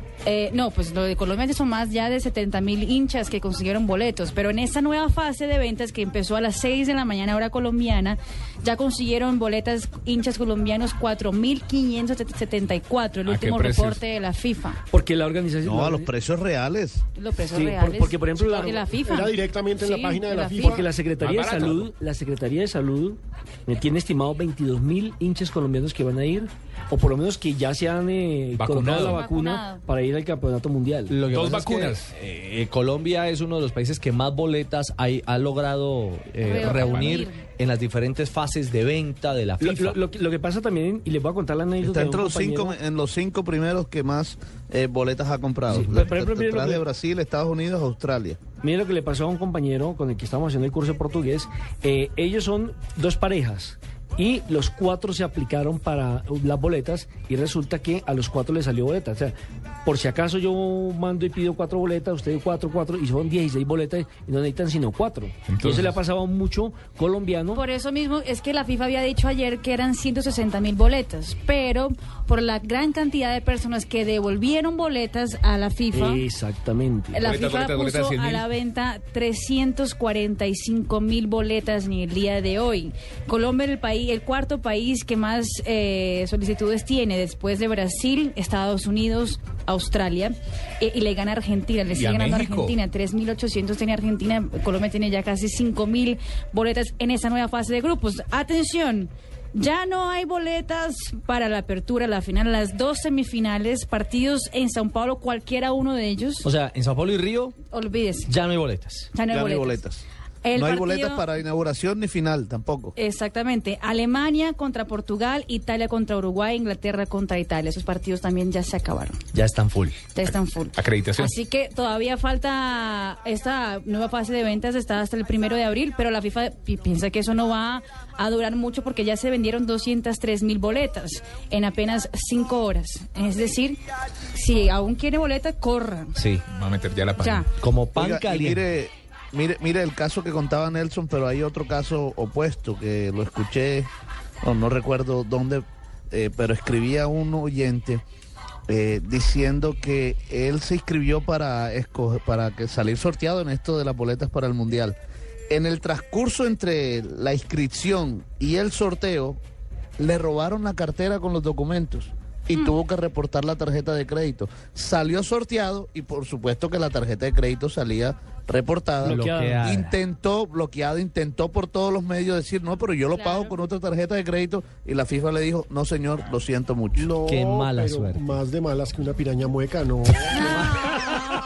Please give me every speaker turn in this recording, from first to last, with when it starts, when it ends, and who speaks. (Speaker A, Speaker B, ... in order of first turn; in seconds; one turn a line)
Speaker A: 0.2-14.8
Speaker B: 13.2-14.0
Speaker C: 14.9-16.1
Speaker D: 15.6-17.0
Speaker A: 17.2-20.8
Speaker C: 17.5-18.9
Speaker E: 18.7-20.9
Speaker C: 20.6-31.2
Speaker B: 21.2-21.9
Speaker B: 28.6-29.2
Speaker A: 29.0-29.8
Speaker F: 31.1-40.0
Speaker B: 31.3-32.1
Speaker A: 36.4-37.4
Speaker B: 36.6-37.2
Speaker C: 39.6-42.8
Speaker D: 41.8-48.4
Speaker C: 45.7-46.8
Speaker C: 48.6-67.6
Speaker B: 65.5-66.0
Speaker A: 67.5-76.2
Speaker C: 75.9-77.3
Speaker A: 77.1-106.5
Speaker B: 77.2-78.5
Speaker B: 91.9-92.8
Speaker F: 106.4-107.6
Speaker A: 107.7-108.3
Speaker F: 108.3-109.2
Speaker A: 109.1-109.8
Speaker D: 109.3-112.9
Speaker A: 110.4-111.2
Speaker A: 113.0-119.2
Speaker F: 119.3-120.0
Speaker A: 120.2-133.8
Speaker B: 120.2-121.3
Speaker A: 134.3-136.2
Speaker F: 136.2-136.4
Speaker B: 136.5-137.5
Speaker A: 137.2-137.5
Speaker F: 137.6-138.7
Speaker D: 137.9-143.9
Speaker D: 144.4-148.0
Speaker D: 148.7-155.0
Speaker D: 155.5-159.4
Speaker D: 160.0-177.1
Speaker C: 169.0-169.8
Speaker F: 169.1-169.9
Speaker A: 173.1-173.6
Speaker E: 176.9-180.9
Speaker F: 177.2-178.3
Speaker F: 180.3-181.1
Speaker A: 180.3-181.2